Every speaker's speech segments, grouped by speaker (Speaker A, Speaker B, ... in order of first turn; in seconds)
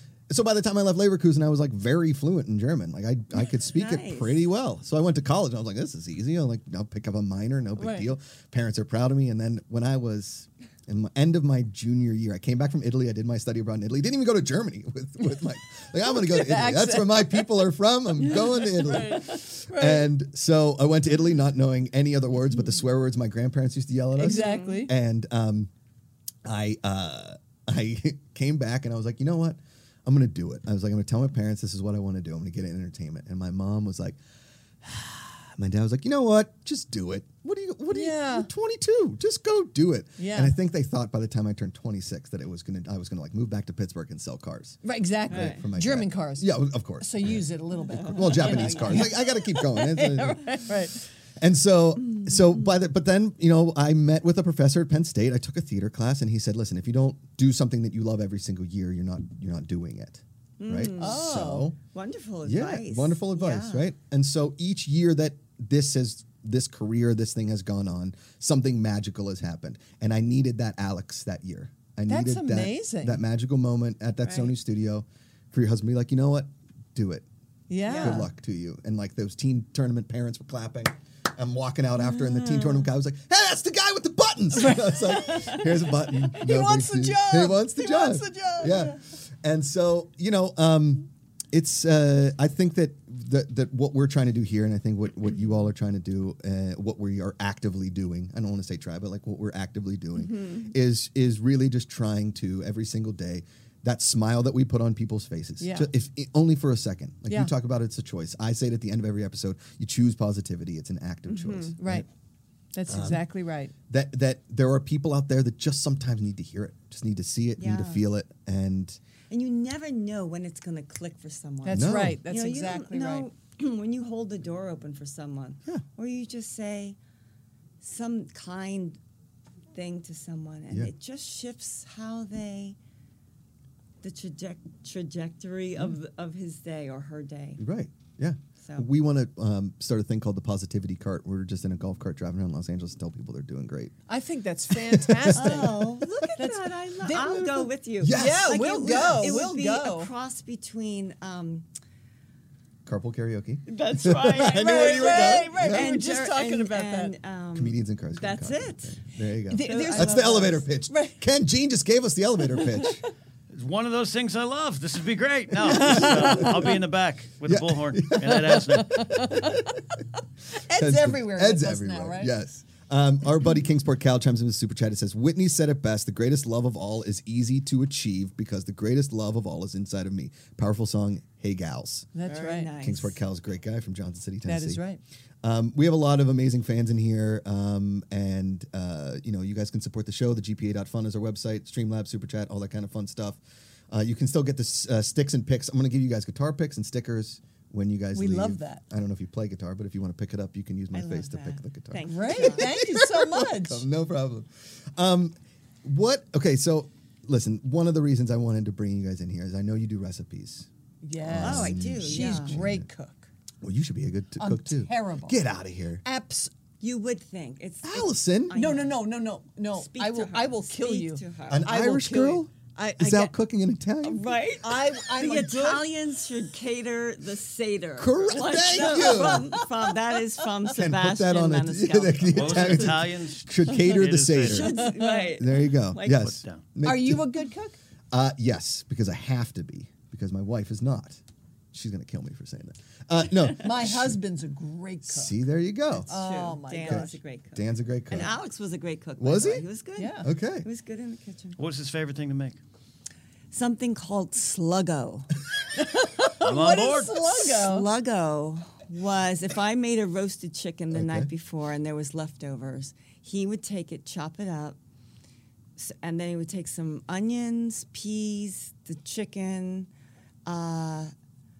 Speaker A: 0.3-25.7, 26.4-34.2, 34.8-61.8, 62.5-77.3, 78.0-112.1, 112.9-113.3, 113.9-119.0, 121.7-122.2, 137.6-143.9, 144.7-146.3, 147.1-149.5, 152.9-155.9, 157.6-163.0, 165.6-166.8, 167.4-169.8, 170.7-182.1, 182.8-184.8, 185.4-210.7, 211.2-212.9, 213.6-216.0, 217.8-218.6, 221.5-224.3, 228.0-229.6, 230.7-237.4, 238.1-241.2, 241.7-244.2, 245.1-246.1, 246.8-248.3, 249.2-249.7, 250.2-250.7, 260.9-261.3
Speaker B: 3.4-4.5, 24.2-24.9, 45.3-45.6, 48.0-49.0, 52.0-52.4, 60.6-61.2, 61.9-63.9, 74.2-74.5, 77.8-78.2, 100.2-100.7, 111.3-111.8, 117.6-118.0, 119.3-127.0, 127.8-129.0, 129.7-132.8, 134.0-137.6, 138.6-138.9, 145.3-151.7, 153.7-159.0, 159.6-160.7, 182.3-183.2, 200.9-202.7, 211.4-212.6, 216.8-219.1, 219.7-221.7, 224.0-232.9, 234.5-236.3, 245.9-251.6, 253.5-255.3, 257.6-264.8, 265.8-269.9, 270.5-271.1
Speaker C: 7.8-8.1, 16.0-17.5, 18.2-20.1, 24.2-24.9, 37.9-38.5, 40.2-40.5, 44.8-51.0, 61.0-61.7, 72.1-73.2, 77.7-78.3, 82.0-82.8, 84.6-89.0, 105.6-105.9, 111.8-112.1, 112.7-113.7, 121.6-123.3, 144.1-147.4, 148.1-150.1, 154.4-157.2, 159.5-161.2, 162.5-162.9, 165.7-166.7, 168.9-169.7, 170.6-172.3, 182.2-182.7, 184.4-185.0, 198.1-198.8, 202.1-203.8, 211.0-213.3, 214.4-215.4, 216.0-216.5, 218.5-223.3, 224.6-225.9, 228.6-229.9, 234.5-235.3, 236.8-237.8, 243.6-245.4, 246.1-247.2, 250.0-250.3, 255.8-257.9
Speaker D: 163.5-169.4, 232.3-234.7, 236.1-236.7, 251.6-252.6, 256.4-257.6